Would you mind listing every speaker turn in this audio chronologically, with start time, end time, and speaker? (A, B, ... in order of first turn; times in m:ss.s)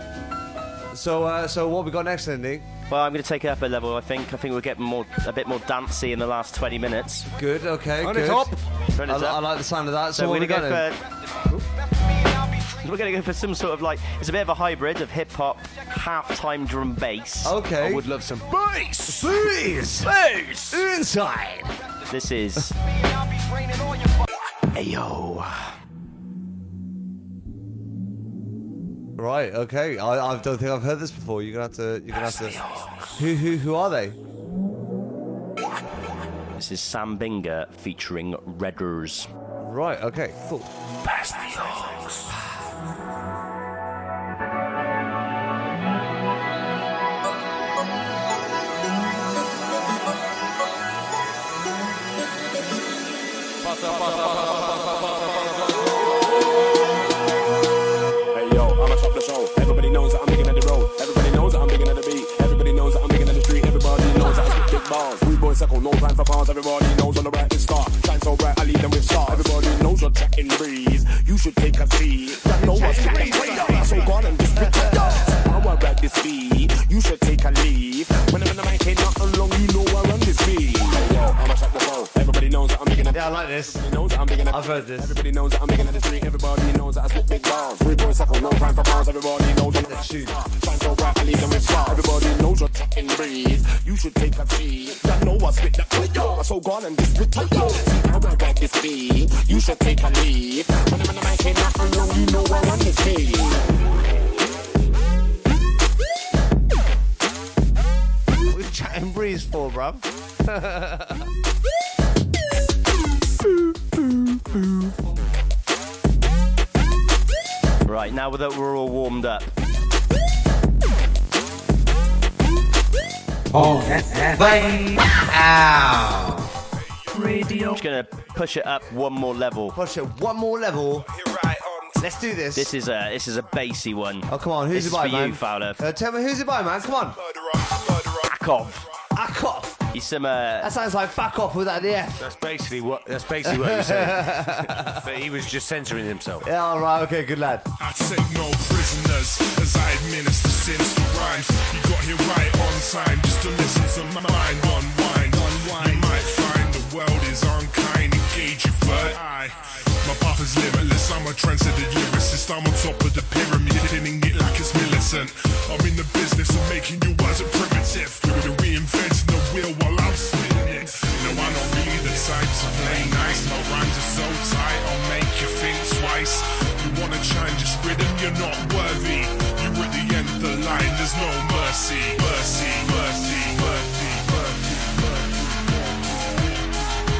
0:00.9-0:02.6 A
0:02.9-0:07.3 B
0:07.4-0:08.5 A
0:08.0-0:08.5 C
0:08.1-0:09.4 B
0:09.0-0:10.8 A
0:10.1-0:11.0 B
0:12.7-0:17.6 B
0:17.4-0:18.0 A
0:17.8-0:19.3 C
0:19.1-0:20.1 A
0:20.2-0:20.8 B
0:20.7-0:21.8 A
0:22.1-0:22.8 B
0:24.7-0:25.8 B
0:29.2-0:32.6 A
0:32.3-0:33.1 C
0:33.2-0:34.2 A
0:36.6-0:39.3 B
0:39.6-0:40.7 A
0:41.2-0:42.3 C
0:53.7-0:55.2 C
0:58.3-1:43.6 D
1:12.6-1:14.1 A
1:14.6-1:15.1 A
1:23.1-1:23.8 A
1:24.5-1:25.2 A
1:29.8-1:30.4 A
1:48.5-1:51.3 A
1:57.8-1:59.5 B
2:03.5-2:06.5 E
2:07.3-2:07.6 E
2:07.6-2:09.8 B
2:09.7-2:11.0 A
2:12.0-2:12.7 A
2:12.5-2:15.8 B
2:14.3-2:17.2 A
2:18.3-2:18.8 B
2:19.1-2:19.8 A
2:19.9-2:20.7 B
2:20.6-2:22.2 A
2:22.2-2:26.5 C
2:23.4-2:25.0 A
2:26.4-2:27.7 A
2:27.8-3:04.8 F
2:52.9-2:53.3 A